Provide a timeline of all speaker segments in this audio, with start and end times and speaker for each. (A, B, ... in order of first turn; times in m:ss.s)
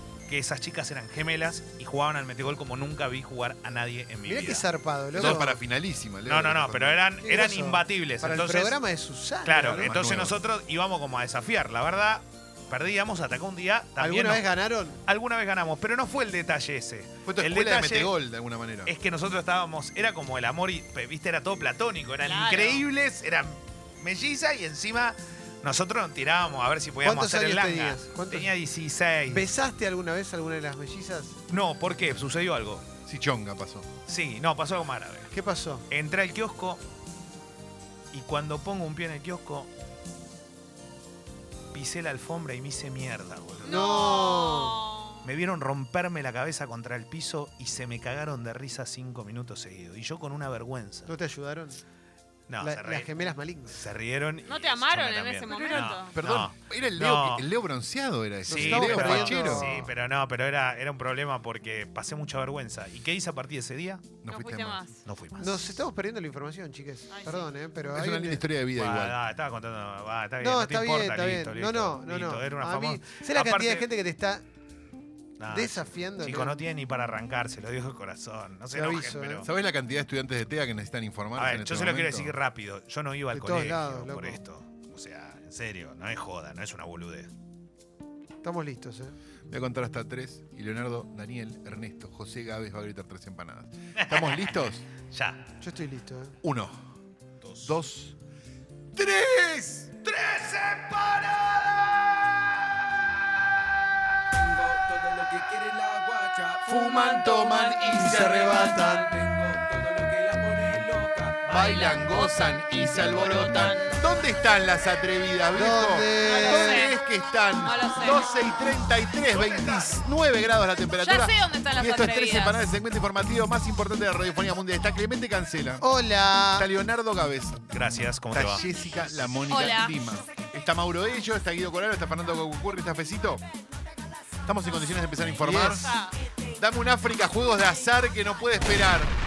0:00.3-0:05.5 A
0:04.2-0:05.6 B
0:05.2-0:07.0 C
0:06.2-0:08.8 A
0:07.2-0:09.9 B
0:09.4-0:14.4 A
0:09.7-0:10.4 C
0:14.0-0:15.0 B
0:15.1-0:18.1 A
0:17.2-0:18.9 C
0:18.9-0:29.5 A
0:22.2-0:22.8 D
0:27.0-0:28.5 B
0:29.3-0:31.4 B
0:31.5-0:32.8 A
0:33.1-0:33.9 C
0:34.1-0:35.3 A
0:35.3-0:35.9 B
0:35.9-0:36.8 A
0:38.1-0:39.7 A
0:41.7-0:43.8 A
0:43.6-0:44.8 B
0:43.6-0:45.3 D
0:45.2-0:51.1 A
0:51.1-0:51.8 B
0:52.5-0:53.1 A
0:52.6-0:53.8 B
0:53.7-0:57.5 A
0:54.4-0:56.2 D
0:56.1-0:59.7 C
0:58.5-0:59.9 B
0:58.5-1:04.2 A
1:04.2-1:04.8 C
1:04.2-1:05.0 D
1:05.0-1:05.7 A
1:05.4-1:08.4 B
1:07.1-1:07.5 D
1:07.9-1:09.2 C
1:08.8-1:13.9 A
1:10.4-1:14.4 B
1:15.4-1:19.5 A
1:15.5-1:16.6 B
1:18.7-1:19.5 B
1:19.4-1:22.4 C
1:21.4-1:27.3 A
1:23.3-1:24.4 B
1:28.4-1:29.2 B
1:29.5-1:34.9 C
1:34.0-1:35.4 A
1:35.6-1:36.4 B
1:36.4-1:36.9 C
1:37.4-1:37.7 A
1:37.6-1:38.1 C
1:38.9-1:42.2 C
1:40.2-1:41.2 A
1:44.3-1:51.5 E
1:46.6-1:48.5 C
1:47.9-1:49.1 B
1:51.5-2:05.8 C
1:51.5-1:54.0 D
1:55.6-1:56.9 B
1:56.2-1:57.0 D
1:57.6-1:58.5 D
2:01.0-2:02.7 D
2:05.8-2:06.7 B
2:06.5-2:07.6 C
2:07.7-2:08.6 A
2:08.3-2:13.4 C
2:09.4-2:10.0 D
2:14.4-2:15.9 C
2:15.4-2:15.8 B
2:15.8-2:16.2 D
2:16.6-2:19.1 C